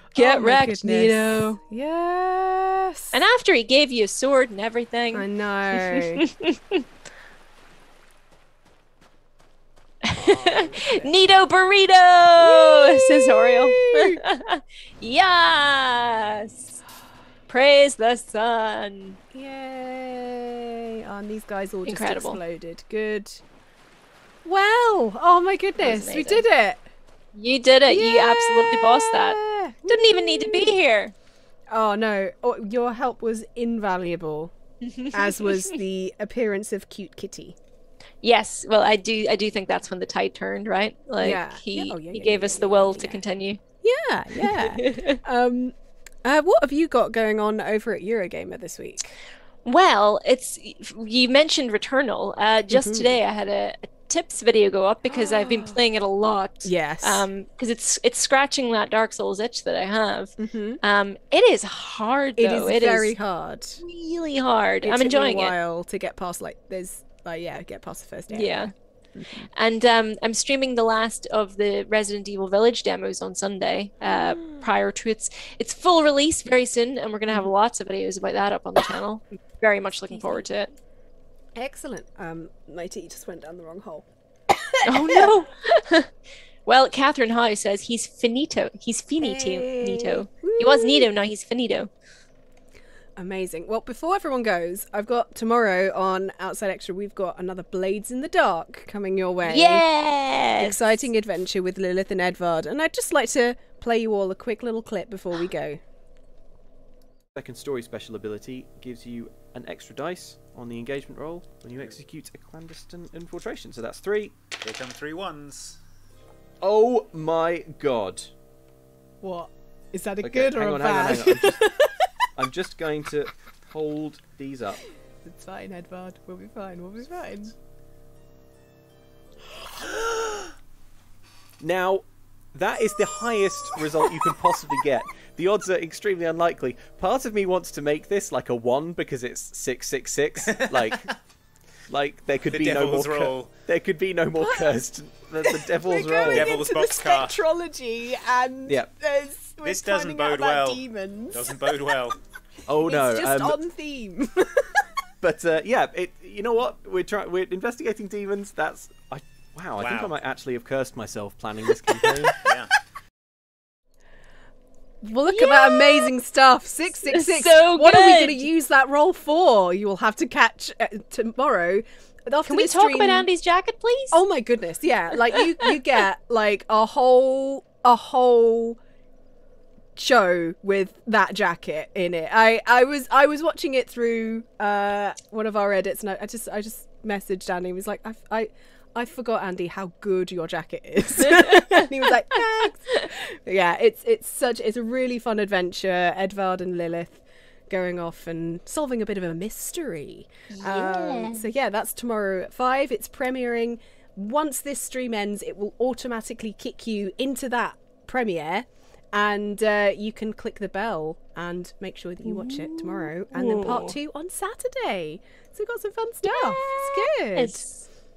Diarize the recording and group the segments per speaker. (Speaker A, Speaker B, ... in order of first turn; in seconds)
Speaker A: 0.1-3.2, 5.1-6.2, 10.2-11.1, 12.4-14.2, 19.3-23.4, 24.4-26.9, 27.9-30.8, 31.7-34.5, 35.1-37.6, 41.2-43.2, 43.8-49.2, 52.7-53.2, 55.1-55.8, 56.6-57.3, 60.4-60.8, 62.4-63.8, 64.8-69.5, 74.0-74.7, 80.1-80.5, 81.6-85.3, 89.2-91.1, 93.2-99.8, 100.6-105.8, 119.2-122.1, 125.2-127.5, 129.5-130.5, 144.4-144.7, 145.4-151.6, 152.8-154.9, 165.0-173.3, 174.1-178.8, 179.9-217.7
Speaker B: 0.1-1.6, 3.1-6.8, 10.1-16.8, 17.5-19.2, 21.9-22.4, 25.8-26.4, 27.3-31.1, 34.8-35.8, 38.2-43.6, 44.4-45.2, 49.6-63.1, 63.8-65.5, 68.3-68.7, 69.5-80.7, 84.8-86.1, 86.7-91.9, 99.5-101.1, 165.3-166.1, 167.1-168.5, 172.5-174.2, 175.3-175.7, 191.3-191.8, 200.5-201.5, 212.2-214.0, 216.2-217.9
Speaker C: 107.3-114.4, 116.6-118.3, 120.2-121.6, 122.4-124.9, 131.6-141.1, 141.9-146.6, 152.7-153.6, 155.2-162.5
Speaker D: 114.6-115.8, 140.4-141.2, 142.5-143.7, 146.1-147.4, 149.6-152.2, 159.8-160.2, 162.4-162.7